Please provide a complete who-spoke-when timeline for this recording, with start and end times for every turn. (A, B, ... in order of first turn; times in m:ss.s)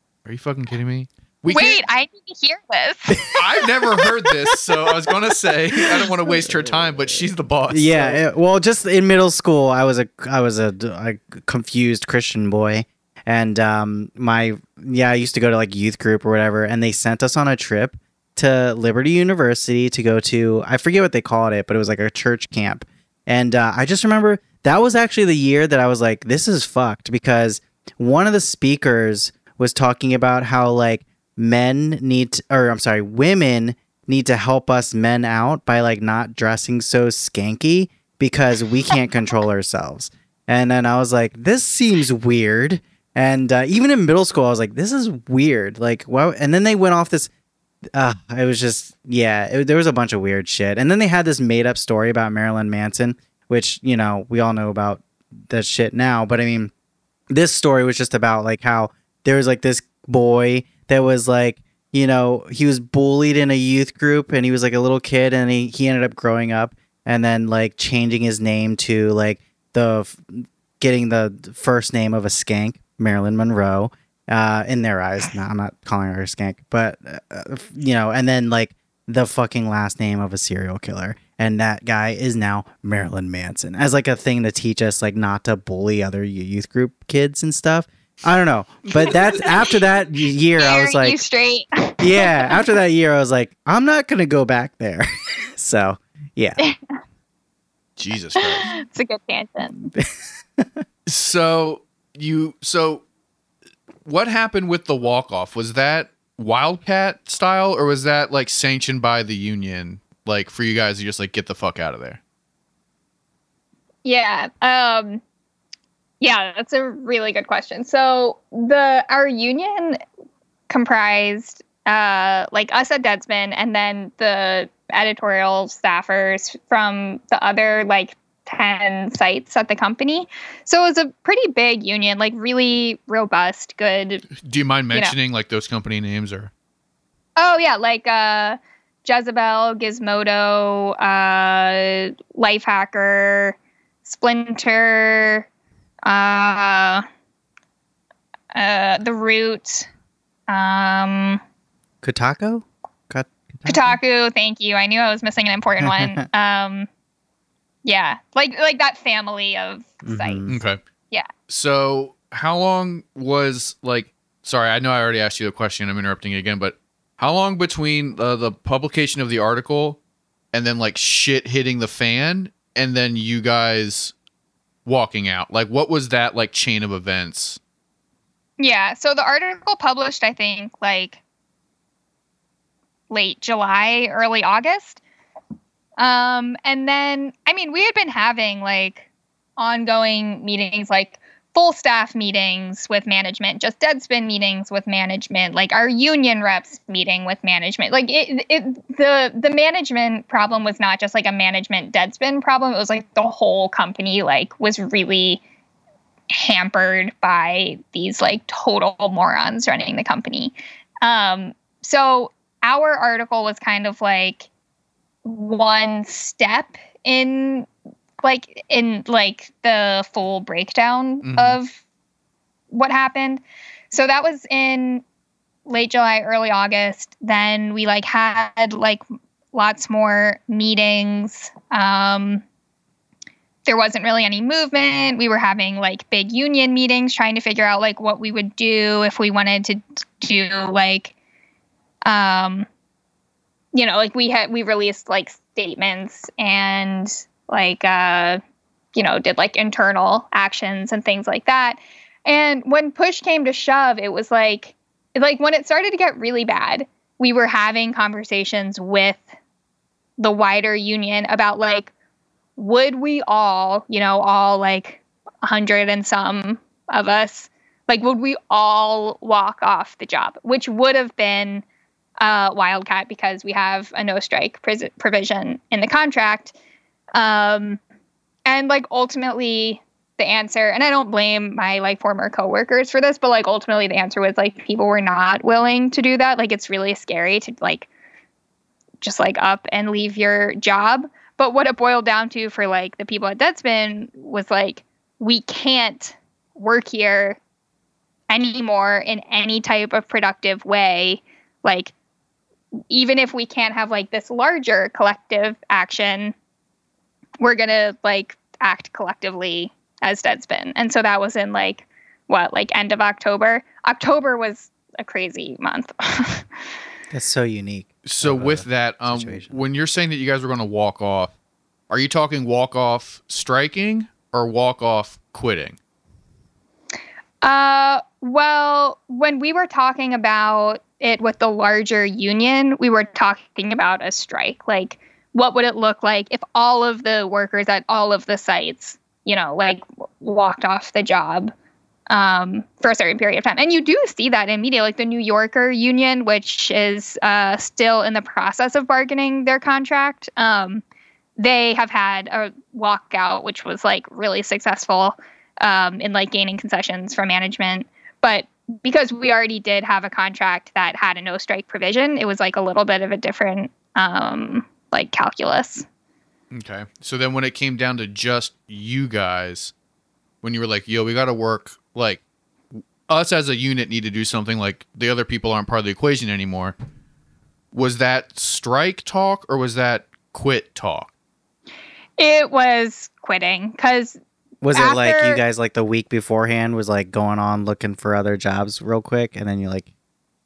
0:00.2-0:01.8 A
0:01.5-0:03.6 B
0:03.3-0:08.2 A
0:05.8-0:47.3 C
0:47.9-0:56.7 C
0:57.3-1:31.2 C
1:28.9-1:29.5 A
1:30.6-1:32.6 B
1:32.0-1:36.6 C
1:36.6-1:37.0 B
1:38.0-1:38.7 A
1:38.4-1:39.8 B
1:39.8-1:40.8 C
1:41.0-1:43.0 A
1:44.0-1:52.2 A
1:54.0-1:55.2 B
1:56.2-2:00.0 B
2:00.7-2:14.3 B
2:14.4-2:16.5 A
2:17.4-2:25.5 B
2:26.0-2:27.0 B
2:28.5-2:29.9 B
2:30.5-2:31.4 B
2:32.0-2:34.0 C
2:33.6-2:36.9 B
2:35.8-2:36.2 C
2:37.8-2:40.4 B
2:40.0-2:40.6 C
2:40.5-2:40.8 A
2:41.5-2:50.0 A
2:50.5-2:54.1 A
2:54.8-2:57.6 A
2:58.6-3:01.2 B
3:03.1-3:05.0 B
3:06.0-3:09.0 B
3:09.6-3:25.4 B
3:26.3-3:34.5 B
3:35.2-3:37.7 B
3:38.2-3:41.8 B
3:41.2-3:41.6 A
3:42.7-3:45.0 B
3:45.6-3:49.0 B
3:49.5-3:52.4 B
3:53.6-4:01.1 B
4:02.0-4:02.7 B
4:03.7-4:08.4 B
4:08.9-4:19.3 B
4:20.2-4:21.9 B
4:22.6-4:31.6 B
4:32.2-4:36.5 B
4:37.1-4:37.8 B
4:38.5-4:47.9 B
4:49.0-4:57.4 B
4:58.3-5:01.9 B
5:02.9-5:06.3 B
5:07.4-5:16.4 B
5:17.1-5:19.6 C
5:18.0-5:21.3 A
5:21.9-5:25.8 A
5:27.4-5:41.5 B
5:42.1-5:50.8 B
5:51.4-6:05.8 B
6:06.5-6:09.7 A
6:10.4-6:12.2 A
6:12.8-6:16.7 A
6:17.7-6:21.1 A
6:22.2-6:24.2 B
6:24.6-6:29.9 C
6:24.7-6:25.4 B